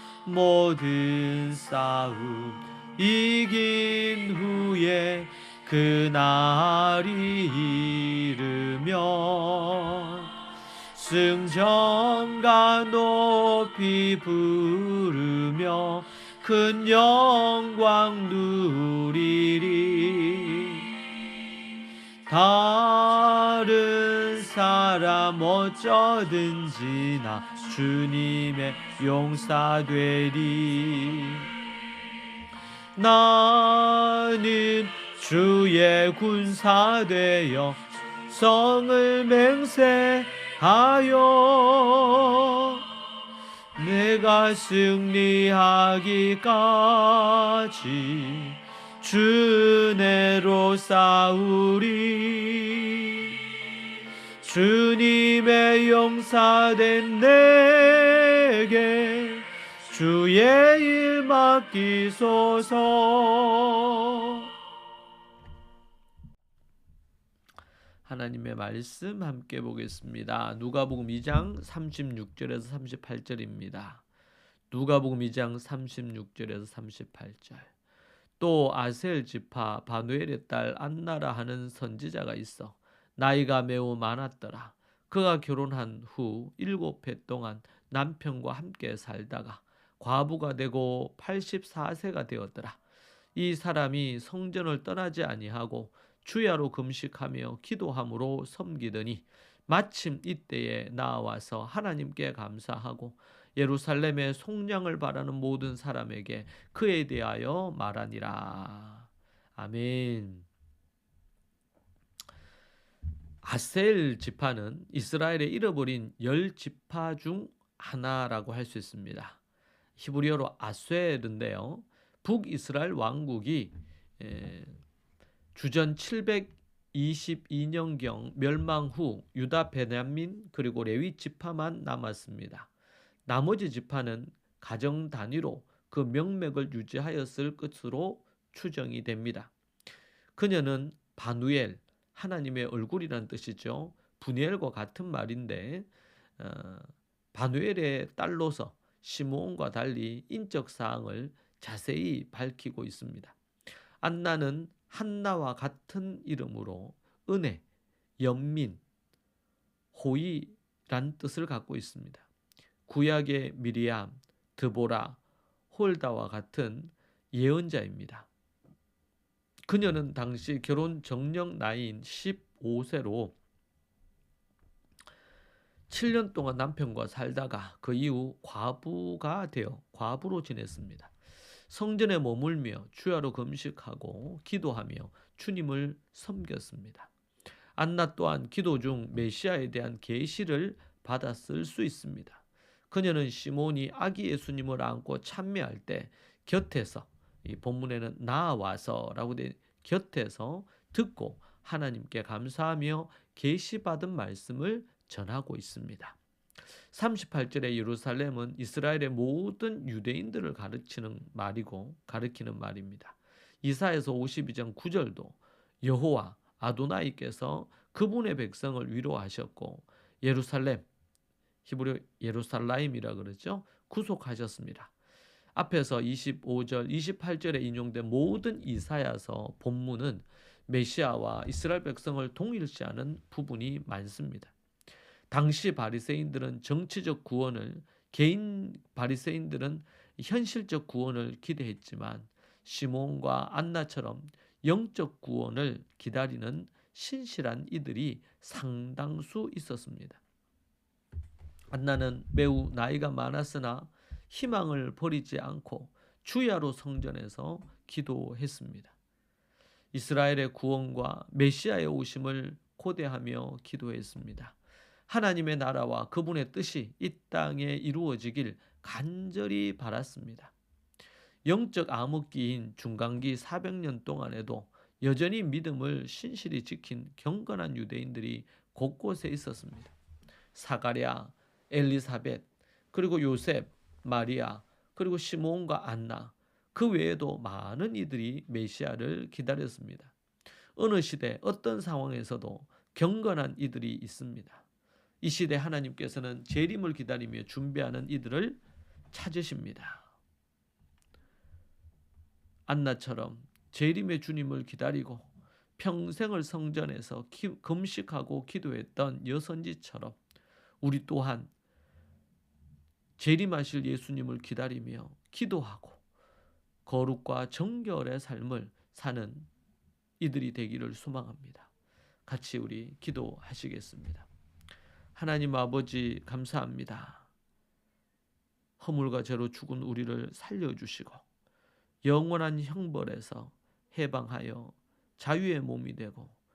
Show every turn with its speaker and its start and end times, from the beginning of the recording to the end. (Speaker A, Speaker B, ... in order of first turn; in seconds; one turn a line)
Speaker A: 0.2-10.3
Speaker A: 10.9-20.9
Speaker A: 22.3-31.5
Speaker A: 33.0-42.9
Speaker A: 43.8-53.4
Speaker A: 54.4-64.5
Speaker A: 68.0-74.0
Speaker A: 74.7-77.7
Speaker A: 78.4-92.8
Speaker A: 93.3-110.5
Speaker A: 113.4-119.4
Speaker A: 120.0-124.8
Speaker A: 125.5-132.7
Speaker A: 133.3-139.5
Speaker A: 140.3-153.4
Speaker A: 154.0-157.6
Speaker A: 158.2-158.8
Speaker A: 159.9-162.3
Speaker A: 162.9-165.2
Speaker A: 165.7-168.3
Speaker A: 169.7-173.4
Speaker A: 175.9-181.1
Speaker A: 181.7-187.1
Speaker A: 187.8-206.2
Speaker A: 206.9-220.9
Speaker A: 221.7-224.9
Speaker A: 225.6-234.5
Speaker A: 235.3-250.2
Speaker A: 251.7-258.9
Speaker A: 259.9-264.6
Speaker A: 265.1-270.5
Speaker A: 271.4-279.9
Speaker A: 280.5-290.1
Speaker A: 290.8-294.6
Speaker A: 295.2-298.6
Speaker A: 299.1-300.1
Speaker A: 302.7-310.2
Speaker A: 310.8-311.5
Speaker A: 313.2-316.0
Speaker A: 316.9-319.5
Speaker A: 320.2-321.7
Speaker A: 322.3-324.3
Speaker A: 325.1-327.3
Speaker A: 328.8-331.2
Speaker A: 332.0-336.4